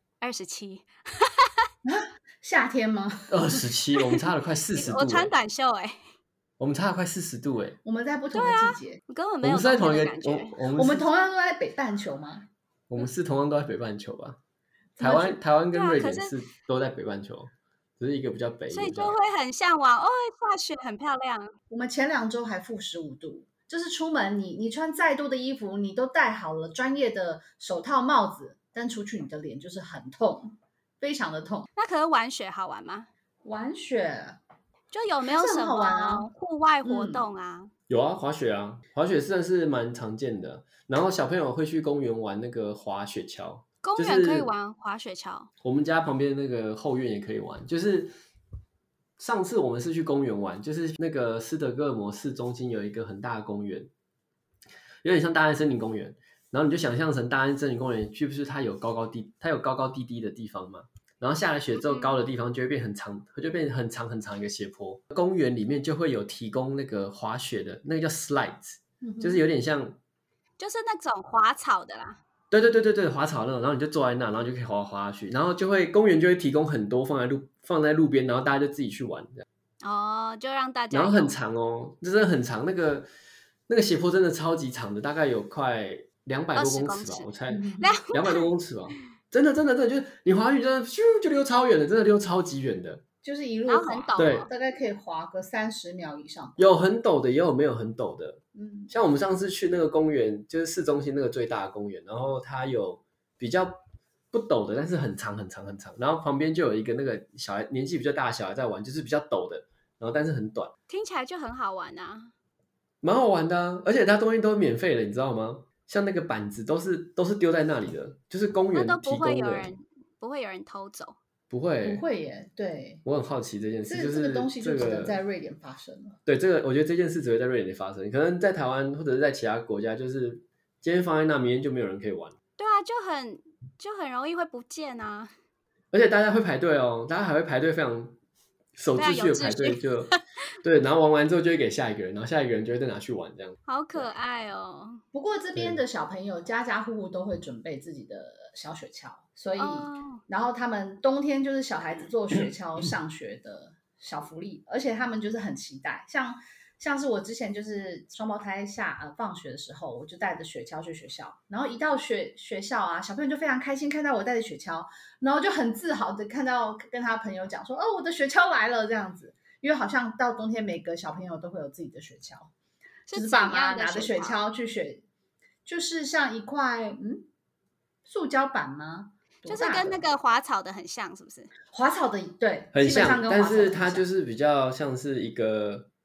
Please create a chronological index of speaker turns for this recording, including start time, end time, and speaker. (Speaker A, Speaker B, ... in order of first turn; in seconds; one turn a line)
Speaker A: 0.2-1.6
Speaker B: 1.9-3.6
Speaker C: 3.3-5.3
Speaker A: 4.7-6.0
Speaker C: 6.6-7.8
Speaker B: 7.8-9.0
Speaker A: 8.3-10.6
Speaker C: 9.4-11.1
Speaker B: 10.8-12.5
Speaker C: 12.9-14.4
Speaker B: 15.0-15.4
Speaker C: 15.0-19.1
Speaker A: 15.7-16.3
Speaker A: 18.7-21.5
Speaker B: 21.7-31.7
Speaker A: 31.8-33.1
Speaker B: 33.4-34.4
Speaker A: 34.9-37.7
Speaker B: 35.3-36.3
Speaker B: 36.8-37.2
Speaker C: 37.9-44.5
Speaker A: 43.8-45.5
Speaker C: 45.6-48.1
Speaker C: 49.2-53.9
Speaker C: 55.0-70.0
Speaker A: 61.8-62.2
Speaker B: 69.0-69.4
Speaker A: 70.6-72.2
Speaker C: 72.5-79.5
Speaker A: 79.8-81.3
Speaker C: 80.9-83.1
Speaker C: 83.7-93.0
Speaker A: 86.5-88.5
Speaker B: 87.5-87.9
Speaker B: 93.2-96.7
Speaker A: 93.7-94.5
Speaker C: 94.2-94.5
Speaker C: 96.6-103.8
Speaker B: 98.5-98.9
Speaker C: 104.3-110.7
Speaker A: 110.9-112.3
Speaker C: 113.0-119.7
Speaker A: 118.7-121.2
Speaker C: 121.5-122.0
Speaker B: 121.8-123.0
Speaker C: 123.0-125.2
Speaker B: 123.9-126.2
Speaker C: 126.3-132.4
Speaker A: 132.6-135.3
Speaker C: 135.9-138.2
Speaker C: 138.8-140.1
Speaker A: 139.0-140.2
Speaker C: 140.6-144.1
Speaker A: 143.7-145.0
Speaker B: 145.1-172.5
Speaker A: 149.6-150.2
Speaker A: 173.1-174.4
Speaker B: 173.1-175.0
Speaker B: 175.7-177.3
Speaker B: 178.1-180.0
Speaker A: 179.4-181.5
Speaker B: 181.7-184.1
Speaker C: 182.7-185.9